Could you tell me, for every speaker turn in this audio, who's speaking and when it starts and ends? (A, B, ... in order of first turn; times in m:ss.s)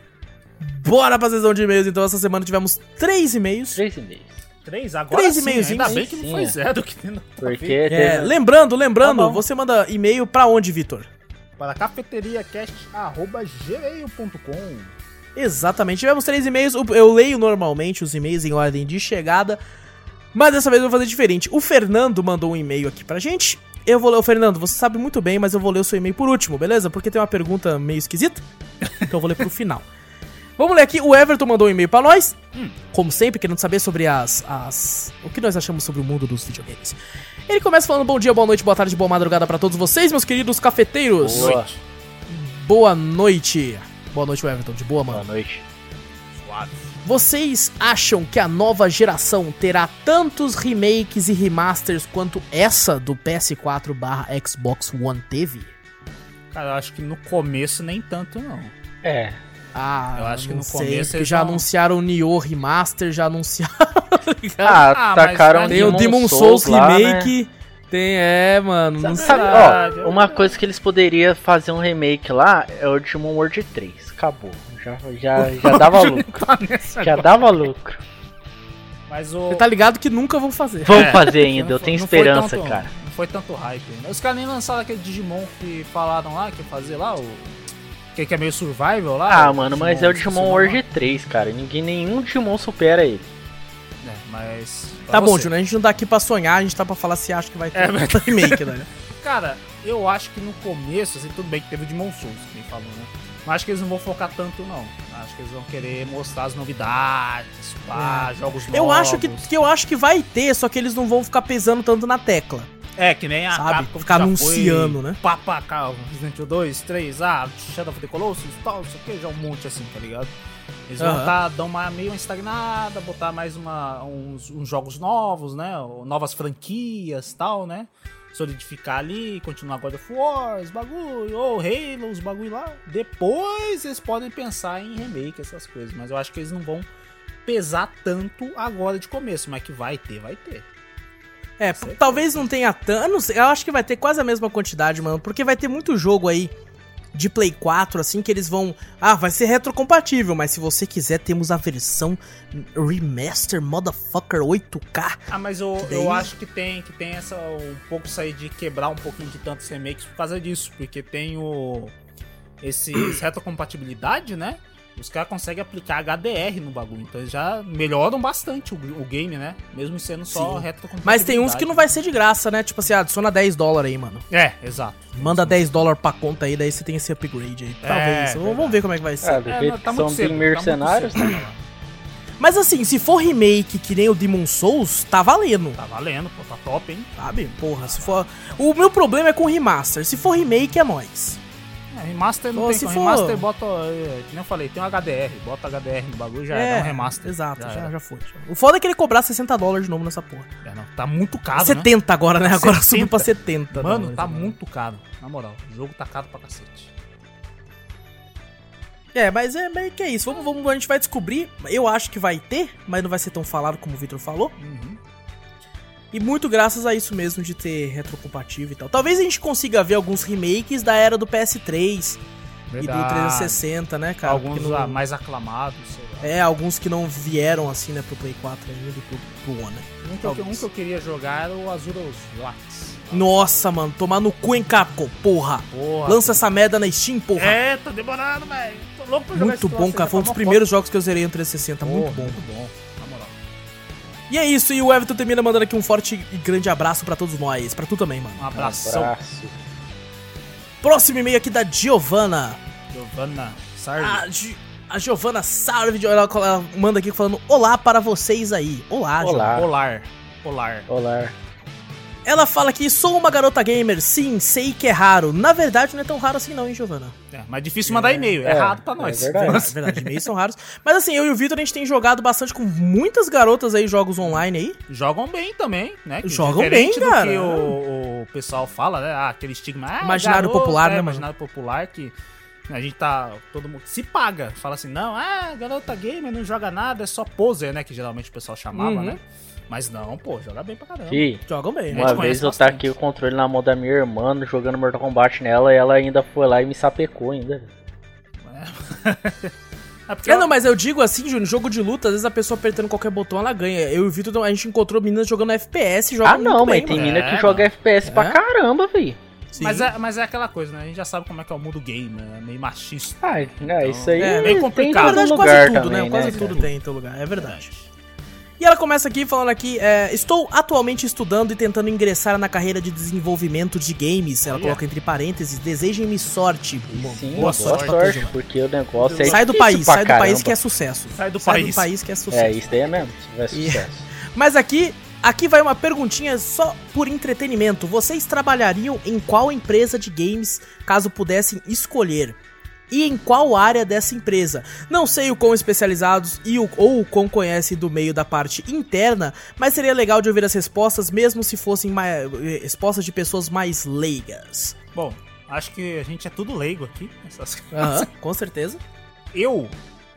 0:00.6-0:03.8 A
0:03.7-0:04.4 B
0:04.6-0:07.8 C
0:05.1-0:06.0 A
0:05.8-0:06.6 B
0:07.4-0:08.3 B
0:07.9-0:11.1 A
0:09.0-0:09.3 B
0:09.1-0:09.3 C
0:11.6-0:14.9 C
0:15.4-0:19.6 A
0:20.3-0:28.4 A
0:29.0-0:29.8 A
0:30.6-0:32.4 A
0:32.9-0:37.0 A
0:37.5-0:41.6 A
0:41.2-0:41.7 B
0:41.3-0:41.8 C
0:42.3-0:45.2 A
0:45.1-0:45.6 B
0:46.3-0:46.9 C
0:47.0-0:55.7 A
0:56.5-0:58.7 C
0:59.0-0:59.4 B
0:59.7-1:04.9 A
1:00.2-1:01.6 C
1:04.6-1:07.3 B
1:04.8-1:06.1 C
1:05.7-1:09.9 A
1:09.0-1:16.4 B
1:09.0-1:10.6 C
1:15.4-1:17.5 C
1:16.9-1:18.0 B
1:19.1-1:19.6 C
1:19.5-1:21.2 A
1:20.8-1:22.9 B
1:20.9-1:27.5 C
1:28.1-1:30.8 C
1:29.3-1:33.2 B
1:34.0-1:35.5 C
1:35.1-1:38.9 A
1:37.7-1:49.5 C
1:47.9-1:52.7 A
1:53.0-2:00.3 C
1:53.5-1:55.2 A
2:00.9-2:16.9 C
2:01.0-2:01.3 A
2:17.4-2:20.6 C
2:21.6-2:26.5 A
2:21.8-2:22.3 C
2:27.1-2:35.2 A
2:35.3-2:41.9 C
2:35.8-2:36.3 A
2:42.6-2:51.8 C
2:50.3-2:54.2 A
2:54.3-2:55.7 C
2:55.2-2:59.4 A
2:57.8-2:58.8 C
2:59.2-3:01.4 B
2:59.4-3:01.6 C
3:02.4-3:05.8 A
3:05.8-3:07.1 C
3:07.2-3:11.4 A
3:07.8-3:08.5 C
3:11.9-3:17.9 C
3:12.5-3:13.4 A
3:16.5-3:20.5 A
3:20.6-3:21.9 C
3:21.5-3:24.5 A
3:22.5-3:26.9 C
3:29.1-3:34.5 A
3:34.6-3:35.0 C
3:36.1-3:42.2 A
3:42.7-3:43.6 C
3:42.8-3:45.0 A
3:44.2-3:46.3 C
3:46.2-3:50.6 A
3:50.0-3:53.5 C
3:53.1-3:57.6 A
3:55.7-3:56.5 C
3:57.4-4:00.6 C
3:59.3-4:02.4 A
4:01.8-4:03.3 C
4:04.3-4:08.5 A
4:08.4-4:09.1 C
4:08.5-4:09.5 B
4:10.8-4:12.6 A
4:12.9-4:14.2 C
4:14.0-4:19.6 A
4:19.2-4:19.7 B
4:19.5-4:20.9 C
4:20.9-4:21.3 B
4:22.2-4:27.1 A
4:27.3-4:30.2 C
4:27.8-4:28.4 A
4:28.4-4:29.6 B
4:29.4-4:34.8 A
4:34.2-4:42.1 C
4:36.2-4:37.8 A
4:40.0-4:41.2 A
4:42.7-4:51.3 C
4:48.7-4:49.2 A
4:51.1-4:57.7 B
4:51.5-4:52.3 A
4:51.9-4:52.8 C
4:58.4-4:59.5 C
5:00.1-5:00.5 C
5:00.2-5:07.2 A
5:06.2-5:09.2 B
5:06.9-5:07.7 C
5:08.0-5:08.4 A
5:09.5-5:09.9 A
5:09.6-5:16.7 C
5:13.2-5:16.6 B
5:14.2-5:17.7 A
5:17.3-5:17.9 C
5:18.6-5:28.3 A
5:24.4-5:24.8 C
5:26.9-5:30.6 B
5:27.3-5:28.2 C
5:29.0-5:29.5 C
5:29.2-5:33.0 A
5:31.1-5:31.9 C
5:32.3-5:34.0 B
5:33.5-5:42.4 A
5:42.9-5:54.8 A
5:54.9-5:58.1 C
5:57.7-5:58.8 A
5:59.3-5:59.7 C